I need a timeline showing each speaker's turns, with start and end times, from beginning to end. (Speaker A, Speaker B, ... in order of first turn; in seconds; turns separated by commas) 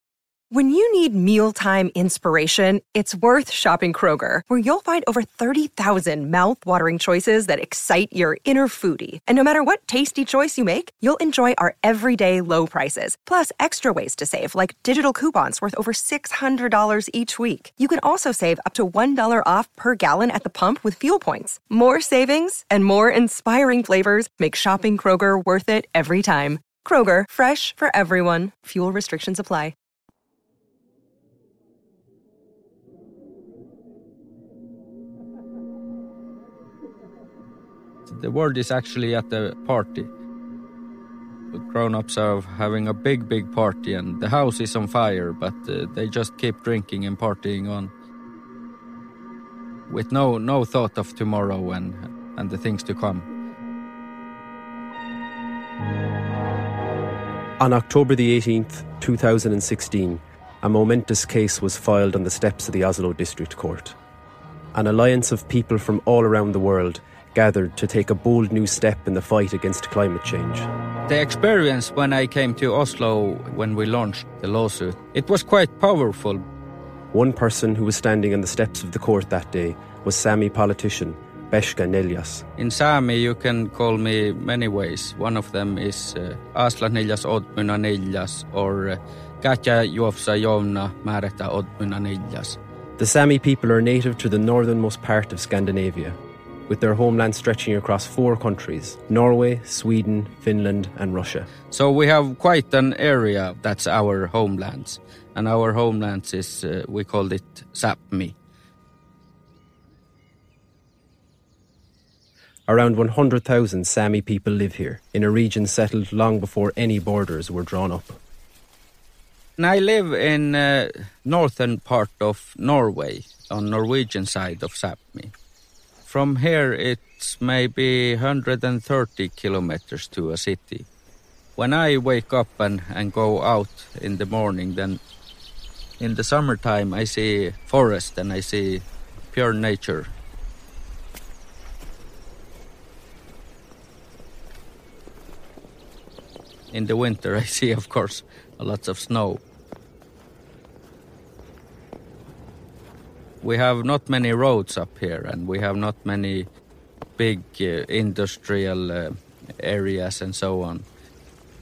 Speaker A: 0.5-29.7, Speaker B: 38.1-40.1, Speaker B: 41.5-47.9, Speaker B: 49.9-53.3, Speaker C: 57.6-64.0, Speaker C: 64.7-70.7, Speaker B: 71.1-76.5, Speaker C: 77.1-82.5, Speaker B: 82.6-92.6, Speaker C: 93.0-101.5, Speaker B: 101.7-108.3, Speaker C: 112.7-118.2, Speaker B: 119.6-125.3, Speaker B: 126.1-130.9, Speaker B: 131.6-135.0, Speaker B: 136.0-140.1, Speaker B: 146.7-149.4, Speaker B: 153.4-156.5, Speaker B: 157.2-160.9